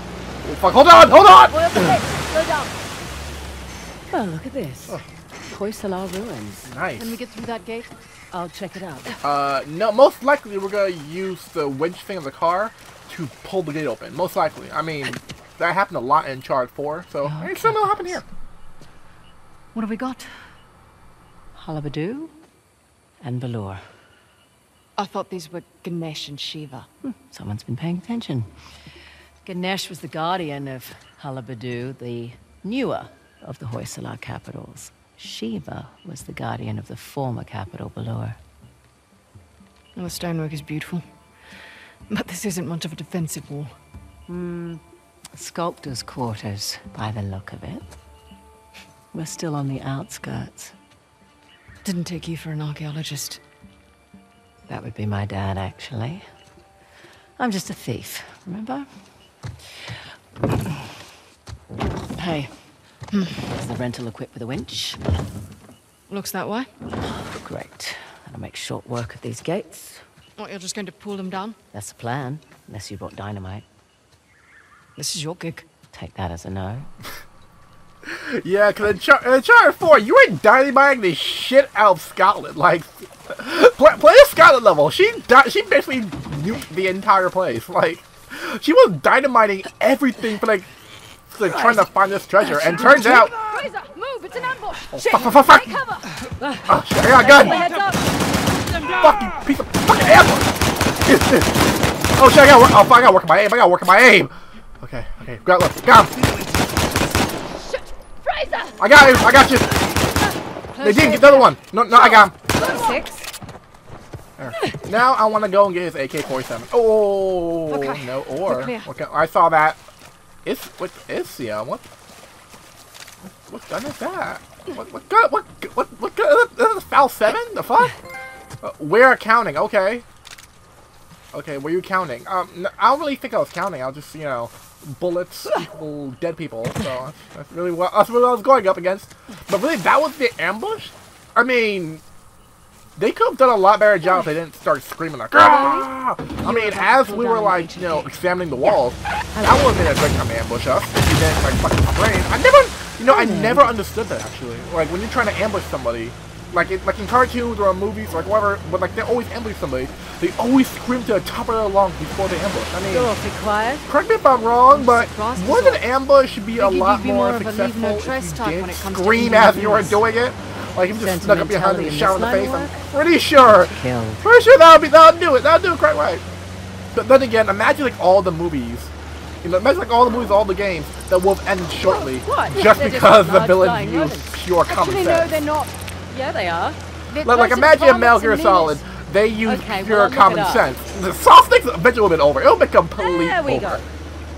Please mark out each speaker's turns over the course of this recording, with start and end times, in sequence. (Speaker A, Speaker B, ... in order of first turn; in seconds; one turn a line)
Speaker A: 0.4-2.0
Speaker B: 1.5-2.7
Speaker B: 4.1-6.7
Speaker A: 6.7-7.2
Speaker C: 7.0-7.9
Speaker B: 8.3-9.2
Speaker A: 9.2-18.2
Speaker B: 17.2-18.2
Speaker C: 19.7-20.3
Speaker B: 21.5-22.3
Speaker B: 23.2-23.8
Speaker C: 25.0-26.9
Speaker B: 27.0-28.5
Speaker B: 29.4-38.4
Speaker C: 40.0-41.0
Speaker C: 42.1-43.7
Speaker B: 44.3-44.8
Speaker B: 45.3-47.8
Speaker B: 49.1-50.7
Speaker C: 51.8-53.4
Speaker B: 54.7-56.2
Speaker B: 57.4-58.9
Speaker B: 62.2-62.5
Speaker C: 63.1-63.4
Speaker B: 63.5-65.0
Speaker C: 66.1-66.7
Speaker B: 67.1-70.0
Speaker C: 70.4-71.5
Speaker B: 71.7-73.6
Speaker C: 75.0-75.6
Speaker B: 75.9-76.9
Speaker A: 78.0-90.7
Speaker A: 91.3-93.3
Speaker B: 91.4-93.6
Speaker C: 93.2-95.7
Speaker A: 94.9-95.8
Speaker B: 96.4-98.0
Speaker A: 96.7-97.7
Speaker A: 98.9-101.6
Speaker A: 102.2-106.4
Speaker C: 107.6-108.7
Speaker A: 108.8-109.8
Speaker C: 110.7-111.5
Speaker A: 110.8-112.3
Speaker B: 112.0-113.3
Speaker C: 112.6-113.0
Speaker A: 114.4-119.8
Speaker C: 117.7-118.8
Speaker A: 120.4-121.8
Speaker A: 123.5-127.9
Speaker A: 128.6-130.0
Speaker A: 131.3-142.0
Speaker A: 143.0-163.1
Speaker B: 145.4-145.8
Speaker C: 146.4-147.8
Speaker B: 147.3-148.0
Speaker B: 153.1-153.8
Speaker B: 162.9-163.8
Speaker A: 163.8-176.2
Speaker C: 164.7-165.8
Speaker C: 166.6-170.0
Speaker B: 170.9-172.8
Speaker B: 173.5-174.2
Speaker A: 176.9-178.9
Speaker A: 179.4-185.4
Speaker B: 181.8-184.4
Speaker C: 184.7-185.7
Speaker B: 186.1-186.8
Speaker C: 187.1-188.8
Speaker A: 187.2-193.8
Speaker B: 189.4-190.7
Speaker B: 192.9-193.8